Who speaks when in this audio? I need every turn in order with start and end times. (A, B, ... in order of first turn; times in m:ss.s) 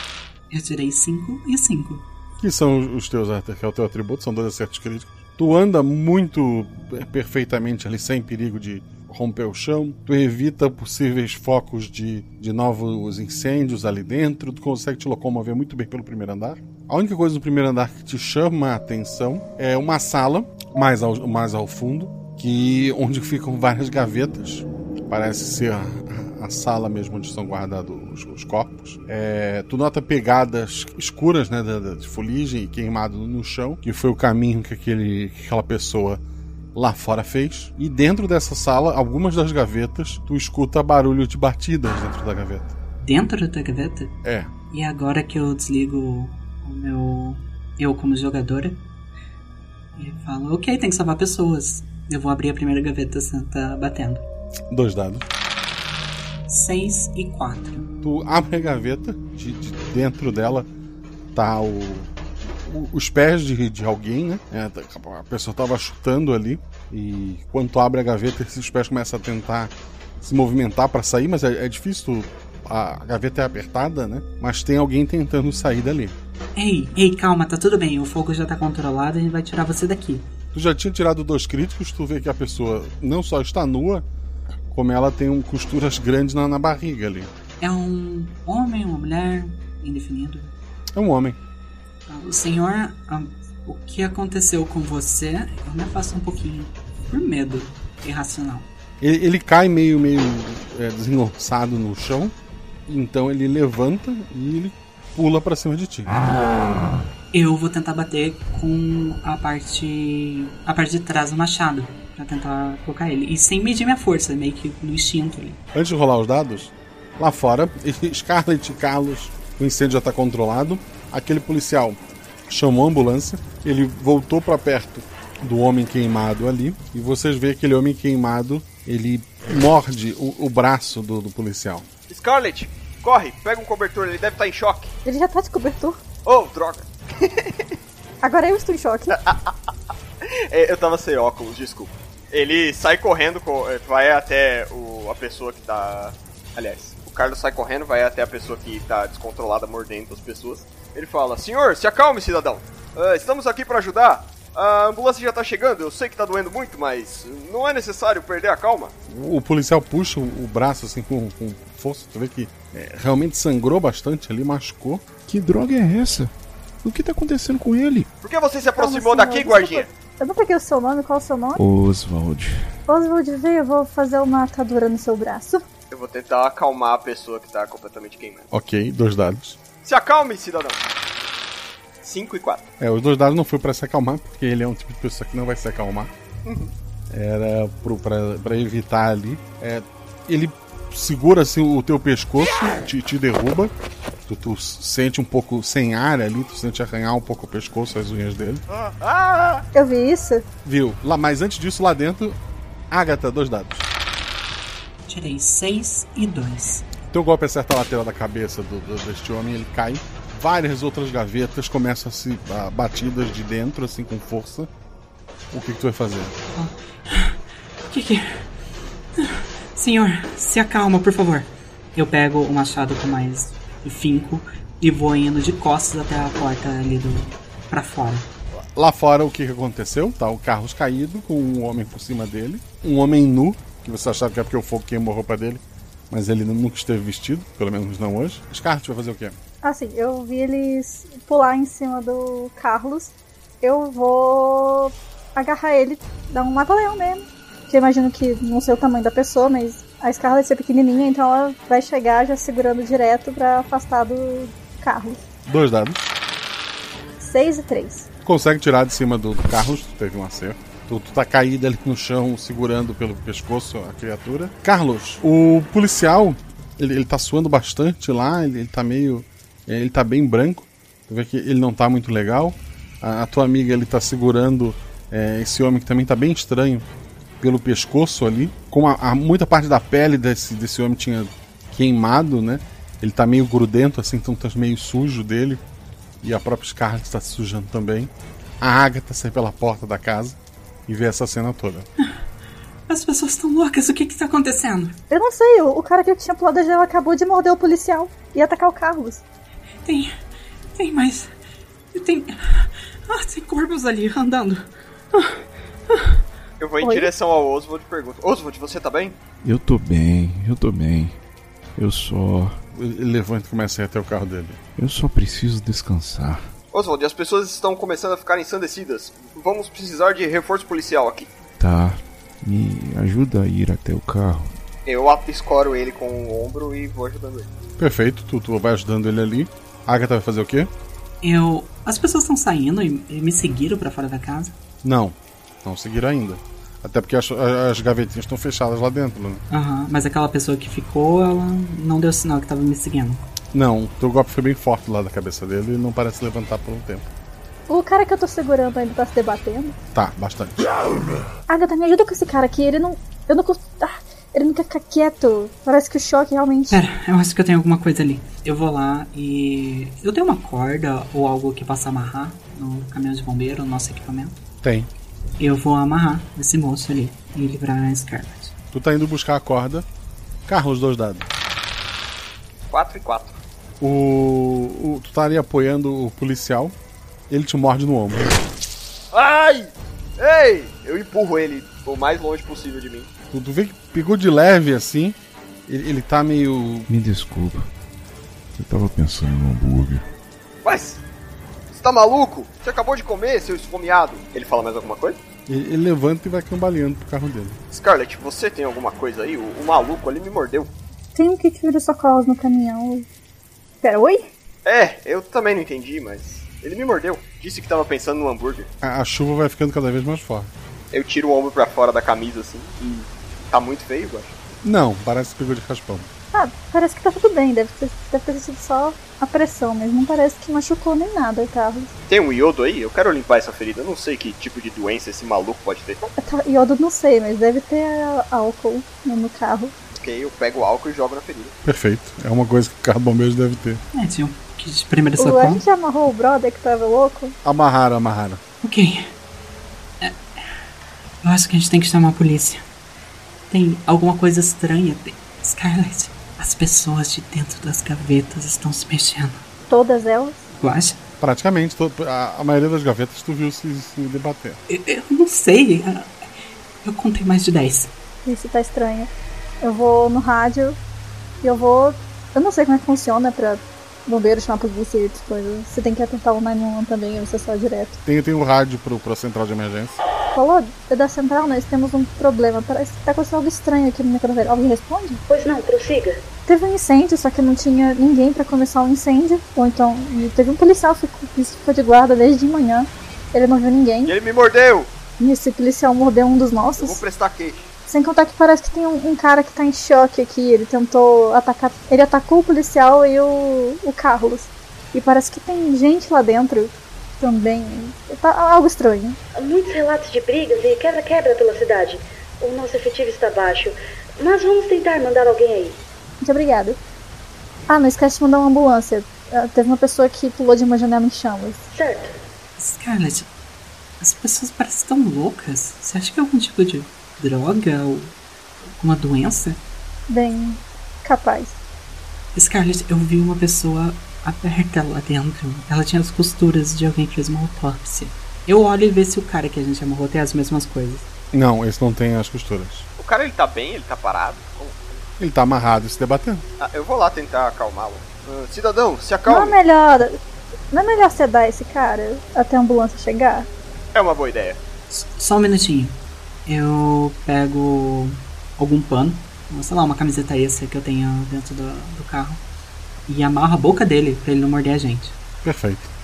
0:00.5-0:02.0 A
0:02.4-0:36.2 B
0:36.7-0:42.7 B
0:43.0-0:44.1 A
0:44.2-0:44.5 B
0:44.7-0:48.8 A
0:50.0-0:54.2 A
0:54.7-0:55.2 B
0:56.5-0:57.9 A
0:58.0-1:00.7 B
1:01.3-1:02.1 B
1:02.6-1:16.1 B
1:16.6-1:20.3 A
1:20.5-1:24.0 B
1:24.7-1:27.3 B
1:27.6-1:30.5 A
1:30.9-1:31.4 B
1:32.1-1:38.6 A
1:39.0-1:42.3 B
1:42.9-1:46.2 B
1:47.3-1:55.6 A
1:55.7-2:11.9 B
2:12.1-2:14.9 C
2:15.0-2:16.0 D
2:16.2-2:17.7 C
2:18.2-2:19.2 D
2:19.1-2:19.6 C
2:20.2-2:38.9 C
2:39.1-2:45.1 B
2:45.3-2:46.3 E
2:46.8-2:48.1 E
2:48.2-2:49.9 C
2:48.8-2:51.6 D
2:51.5-2:52.7 E
2:52.9-2:55.6 D
2:55.9-2:58.5 C
2:58.5-2:59.6 B
2:59.8-3:00.8 C
3:02.0-3:02.7 C
3:02.8-3:06.1 B
3:06.4-3:06.7 C
3:07.1-3:13.7 B
3:14.2-3:18.6 B
3:18.7-3:19.6 C
3:19.7-3:20.4 D
3:20.6-3:22.4 B
3:22.9-3:23.9 B
3:25.1-3:26.8 A
3:27.1-3:34.7 B
3:35.5-3:36.4 B
3:36.5-3:37.4 A
3:37.9-3:38.5 A
3:39.2-3:48.3 A
3:48.7-3:59.4 B
3:59.6-4:15.2 D
4:15.4-4:16.2 B
4:17.2-4:18.1 D
4:18.2-4:36.8 B
4:37.4-4:45.6 B
4:46.2-4:51.8 B
4:52.9-4:55.0 A
4:55.1-4:59.2 D
4:59.8-5:00.1 A
5:00.7-5:01.3 A
5:01.9-5:06.2 A
5:06.6-5:09.2 C
5:06.8-5:07.1 D
5:09.4-5:11.2 E
5:11.8-5:12.6 E
5:12.7-5:14.6 B
5:14.8-5:16.5 E
5:16.7-5:21.3 C
5:21.6-5:24.6 E
5:24.8-5:27.5 C
5:27.8-5:30.7 B
5:31.2-5:34.5 A
5:34.8-5:39.4 B
5:39.5-5:43.2 A
5:43.5-5:47.1 B
5:47.7-5:49.8 D
5:49.9-5:50.7 B
5:51.5-5:56.8 D
5:56.7-6:04.3 A
6:04.6-6:04.9 B
6:05.4-6:08.5 A
6:08.7-6:09.8 B
6:10.5-6:11.3 B
6:12.7-6:13.4 C
6:13.8-6:16.7 B
6:17.3-6:18.3 B
6:19.1-6:23.1 C
6:23.3-6:26.9 B
6:26.9-6:27.7 E
6:28.6-6:30.0 E
6:30.6-6:31.0 C
6:31.7-6:35.2 C
6:35.5-6:37.6 B
6:37.7-6:40.7 C
6:41.1-6:43.0 D
6:43.8-6:44.3 D
6:44.6-6:48.7 C
6:48.8-6:50.5 B
6:50.9-6:54.3 C
6:54.6-6:56.1 B
6:56.3-7:01.9 D
7:02.1-7:06.0 C
7:06.0-7:09.7 D
7:09.9-7:11.5 C
7:11.6-7:13.8 B
7:13.9-7:15.6 A
7:15.2-7:17.4 D
7:17.4-7:18.4 B
7:18.6-7:19.1 A
7:21.2-7:22.6 A
7:23.5-7:29.4 A
7:29.7-7:30.4 D
7:30.6-7:31.0 A
7:31.2-7:34.6 B
7:34.7-7:36.1 A
7:36.8-7:37.9 A
7:38.2-7:39.1 D
7:39.6-7:40.8 D
7:41.4-7:48.0 D
7:48.0-7:50.0 B
7:50.3-7:55.2 D
7:55.3-7:56.2 F
7:56.4-8:04.1 D
8:04.0-8:04.9 C
8:05.2-8:07.0 D
8:06.8-8:07.7 C
8:07.9-8:19.2 D
8:19.4-8:25.8 F
8:26.2-8:26.8 D
8:27.7-8:31.6 D
8:31.7-8:32.2 F
8:32.6-8:33.3 A
8:34.0-8:38.1 A
8:38.8-8:39.6 A
8:40.1-8:41.6 D
8:42.3-8:51.1 A
8:51.3-8:52.9 B
8:53.0-8:55.0 C
8:55.2-8:56.4 B
8:56.6-8:59.6 C
8:59.3-9:00.2 D
9:00.7-9:03.5 D
9:03.9-9:04.6 C
9:04.9-9:05.9 A
9:06.4-9:12.4 A
9:13.1-9:15.1 A
9:15.4-9:15.9 B